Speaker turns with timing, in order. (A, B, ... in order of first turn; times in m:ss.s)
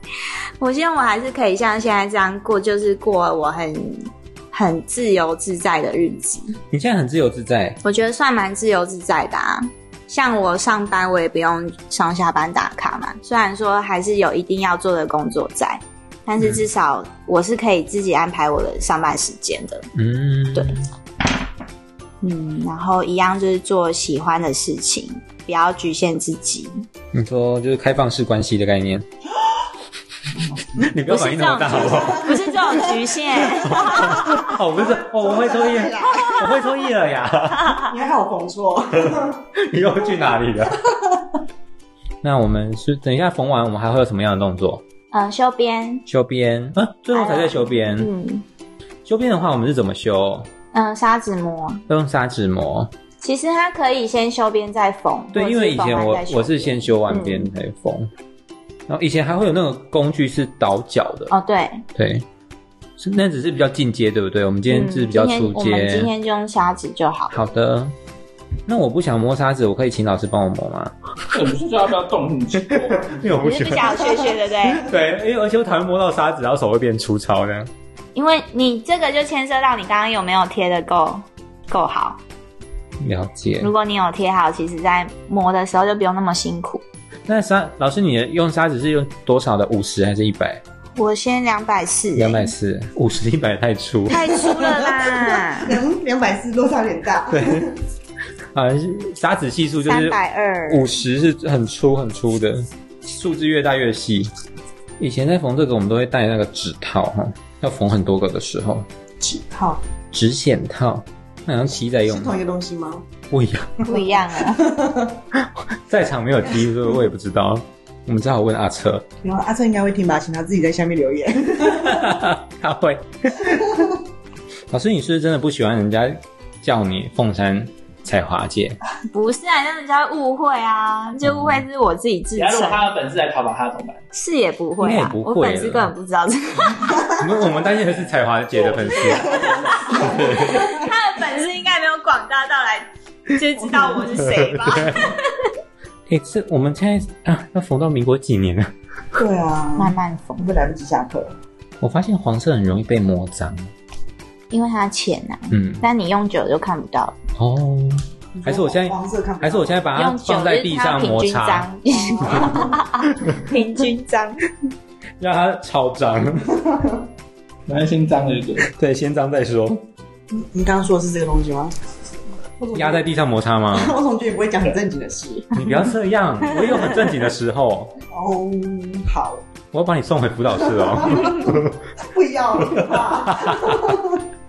0:00.6-0:06.6 A
0:06.7-0:07.8 B
0:07.8-0:19.9 A
0:16.4-0:16.6 B
0:19.9-0:20.8 B
0:22.2-0:26.8 A
0:27.1-0:29.1 B
0:30.8-0:32.5 B
0:31.1-0:34.5 A
0:33.6-0:37.7 B
0:33.8-0:36.4 C
0:36.1-0:36.5 A
0:37.6-0:37.9 A
0:37.9-0:39.4 C
0:39.1-0:40.8 B
0:42.2-0:44.8 B
0:45.1-0:46.0 A
0:46.0-0:48.1 B
0:47.1-0:48.4 A
0:49.0-0:50.5 B
0:50.7-0:51.8 A
0:51.9-0:52.9 B
0:53.2-0:57.5 A
0:55.3-0:58.1 B
0:58.9-1:01.3 B
1:01.3-1:01.8 A
1:01.9-1:02.2 B
1:03.0-1:06.1 B
1:04.7-1:07.4 A
1:07.3-1:07.9 B
1:08.7-1:10.9 B
1:11.3-1:13.2 D
1:13.0-1:17.7 B
1:13.4-1:14.9 A
1:18.1-1:22.2 A
1:23.0-1:23.7 B
1:23.6-1:26.8 A
1:27.3-1:30.6 B
1:31.0-1:32.5 A
1:32.1-1:34.2 B
1:34.1-1:35.8 A
1:34.2-1:37.7 C
1:37.3-1:37.7 B
1:38.5-1:44.3 B
1:39.9-1:40.9 A
1:45.0-1:48.8 B
1:49.2-1:49.8 C
1:50.1-1:52.4 B
1:51.9-1:53.0 C
1:53.3-1:53.8 B
1:53.9-1:54.6 A
1:53.9-1:55.2 C
1:55.9-1:59.0 B
1:59.2-2:02.1 C
2:01.7-2:04.0 B
2:04.7-2:08.8 B
2:09.1-2:12.9 A
2:11.2-2:11.6 B
2:12.4-2:14.0 D
2:14.1-2:17.1 A
2:14.8-2:15.9 B
2:17.1-2:20.6 B
2:18.6-2:20.0 D
2:19.7-2:20.7 C
2:19.7-2:25.5 A
2:23.6-2:24.0 C
2:24.2-2:25.1 B
2:26.1-2:28.7 B
2:29.2-2:31.3 C
2:29.8-2:30.5 A
2:31.8-2:33.7 B
2:34.5-2:37.2 A
2:35.5-2:35.8 B
2:37.4-2:41.6 B
2:38.4-2:39.8 C
2:40.0-2:44.5 A
2:45.2-2:46.6 B
2:46.7-2:47.0 C
2:47.7-2:48.7 D
2:48.7-2:49.8 B
2:50.3-2:51.7 C
2:52.6-2:53.0 C
2:52.7-2:53.9 B
2:53.7-2:55.6 C
2:55.5-2:57.9 B
2:58.1-2:59.4 C
2:59.7-3:01.8 B
3:01.0-3:04.2 C
3:02.7-3:04.0 B